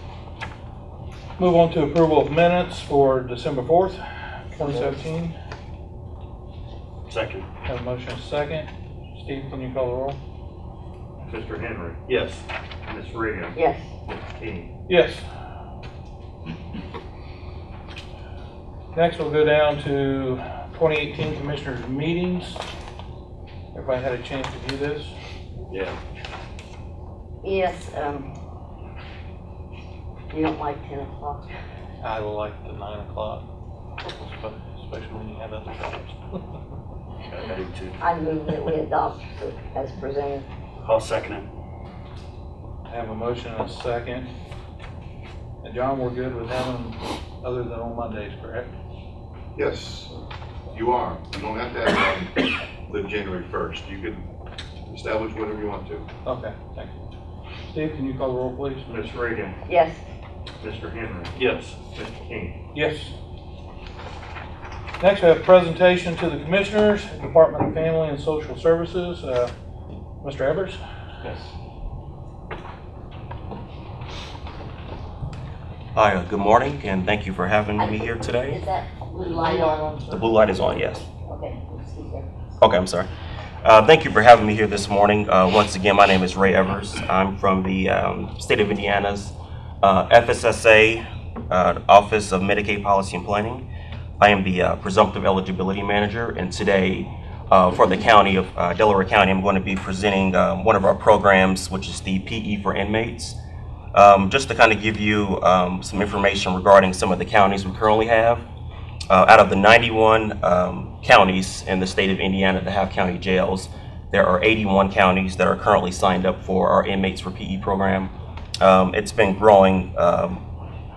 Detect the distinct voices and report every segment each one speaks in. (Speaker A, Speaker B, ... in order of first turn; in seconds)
Speaker A: 1.4-5.3, 7.6-10.2, 14.9-15.2, 18.9-22.6, 23.7-25.1, 32.0-33.4, 34.2-36.2, 42.9-44.3, 45.6-48.7, 56.2-57.0, 57.7-58.9, 62.7-63.1, 65.0-69.5, 70.2-70.8, 79.2-80.2
Speaker B: 4.5-4.9, 13.5-13.9, 27.4-28.3, 30.3-31.5, 38.0-40.5, 59.6-60.0, 77.8-80.0, 81.2-82.4
Speaker C: 7.1-7.5, 12.1-12.4, 25.7-26.0, 37.2-38.0, 40.8-41.5, 61.3-61.8
Speaker D: 11.3-12.0, 12.9-13.6, 14.4-14.7, 58.9-59.5, 60.6-62.5
Speaker E: 49.5-50.1, 50.7-54.3, 54.9-56.0
Speaker F: 75.9-78.6, 80.1-81.1, 82.6-83.1, 83.6-93.7, 94.2-103.3, 103.9-108.5, 109.1-120.4